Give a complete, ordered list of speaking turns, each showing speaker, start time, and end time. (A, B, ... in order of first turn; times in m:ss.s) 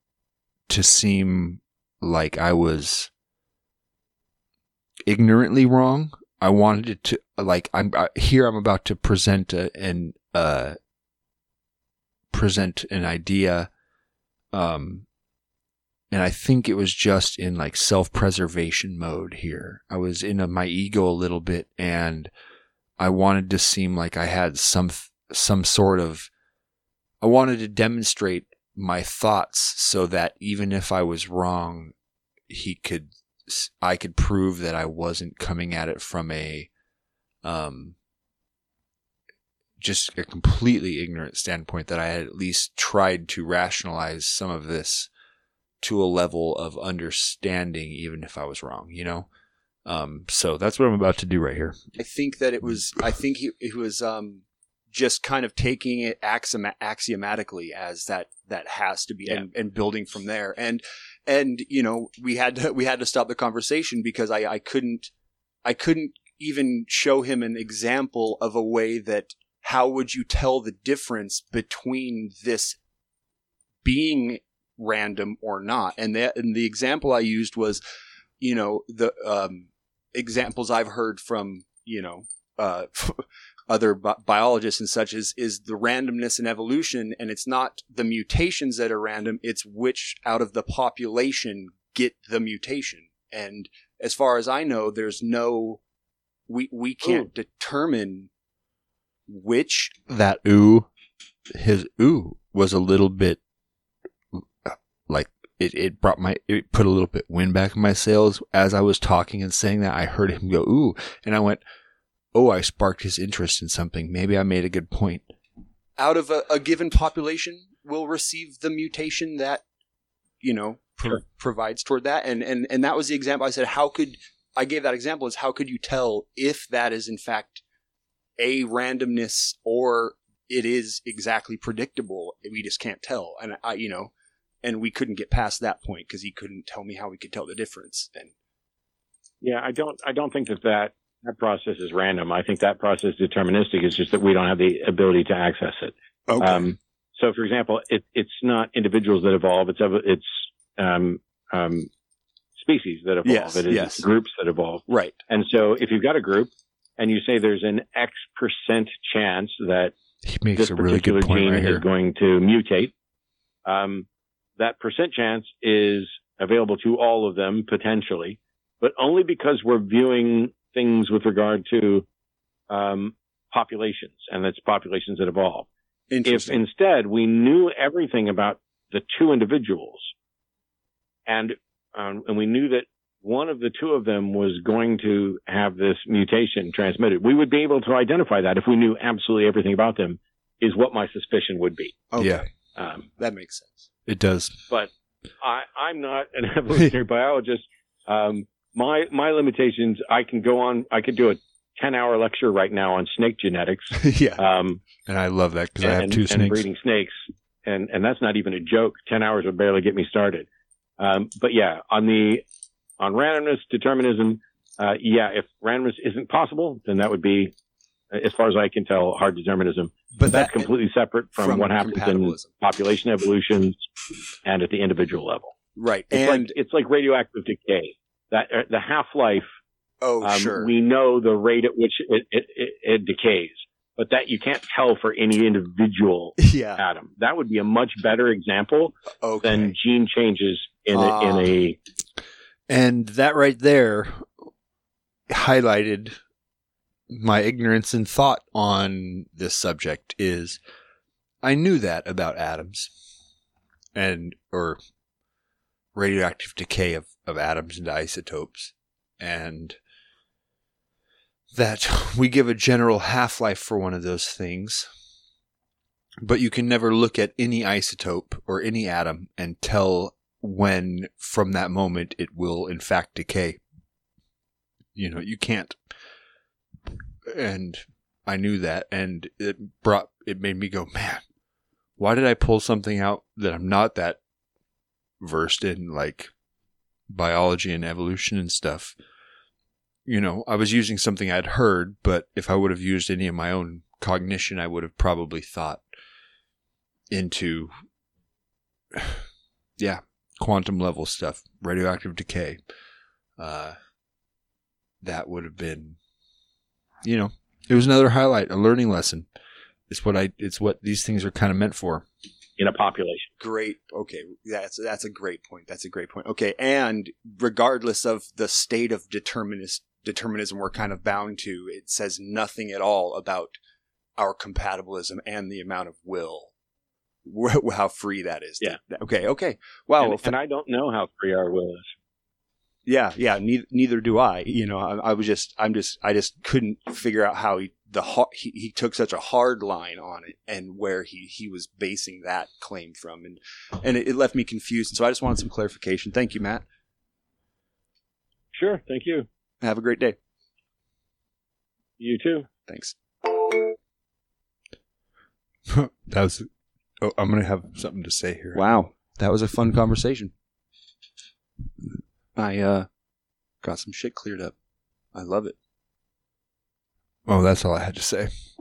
0:00.7-0:03.1 A
0:05.1-0:10.8 A
0:12.3-0:13.7 A
0:14.5-0:15.0 A
0:16.1-0:22.3 A
0:23.0-0:26.3 A
0:27.2-0:31.9 A
0:32.5-0:36.7 A
0:37.4-0:37.9 A
0:39.8-0:45.1 A
0:45.8-0:49.3 A
0:49.8-0:51.9 A
0:52.0-1:05.1 B
1:05.6-1:12.8 B
1:13.8-1:17.8 B
1:18.4-1:35.8 B
1:36.5-1:38.3 B
1:39.3-1:40.0 B
1:40.1-1:40.9 A
1:41.5-1:43.4 A
1:44.3-1:51.6 A
1:52.3-1:55.2 A
1:56.0-1:59.6 B
2:00.4-2:07.6 B
2:08.4-2:14.1 B
2:14.6-2:18.3 B
2:19.4-2:31.9 C
2:26.3-2:26.7 B
2:32.6-2:39.9 C
2:33.2-2:34.0 B
2:34.9-2:35.2 B
2:40.2-2:41.8 A
2:40.6-2:42.9 C
2:43.6-2:44.0 C
2:44.6-2:52.0 C
2:52.7-2:55.7 C
2:56.1-2:56.6 B
2:56.2-3:00.1 C
3:01.3-3:12.0 C
3:12.1-3:12.5 B
3:12.2-3:12.4 A
3:12.8-3:13.1 C
3:13.2-3:13.9 B
3:14.1-3:14.6 A
3:14.7-3:24.8 C
3:24.0-3:24.3 A
3:25.0-3:26.6 A
3:25.8-3:27.1 C
3:27.6-3:30.5 C
3:31.0-3:32.4 C
3:33.0-3:37.5 C
3:38.1-3:43.8 C
3:40.2-3:40.7 B
3:41.4-3:42.5 B
3:44.4-3:45.5 C
3:45.8-3:46.5 B
3:46.1-3:49.4 C
3:50.0-3:50.7 B
3:50.2-4:01.8 C
3:56.4-3:56.8 B
3:59.2-3:59.7 B
4:00.9-4:01.5 B
4:02.7-4:04.3 A
4:05.3-4:06.2 A
4:07.1-4:10.6 A
4:11.4-4:12.9 A
4:14.0-4:14.8 A
4:15.9-4:19.8 A
4:21.5-4:24.9 A
4:26.2-4:33.6 A
4:34.9-4:35.8 A
4:37.3-4:41.2 A
4:42.0-4:44.2 A
4:45.2-4:46.3 A
4:47.1-4:48.9 A
4:50.1-4:55.8 A
4:57.1-4:57.7 A
4:58.9-4:59.2 A
4:59.8-5:02.6 A
5:03.4-5:03.8 A
5:05.0-5:06.0 A
5:07.0-5:09.2 A
5:09.9-5:12.0 A
5:12.6-5:13.3 C
5:13.4-5:23.6 B
5:24.2-5:26.5 B
5:27.2-5:30.3 B
5:30.0-5:31.9 C
5:32.8-5:46.6 B
5:48.5-5:49.2 C
5:49.6-5:50.2 B
5:52.0-5:52.5 C
5:52.7-5:53.6 B
5:55.7-5:56.5 A
5:57.0-5:58.6 A
5:58.5-6:00.3 B
6:02.4-6:02.9 B
6:03.6-6:04.5 B
6:05.1-6:05.6 B
6:07.3-6:08.3 A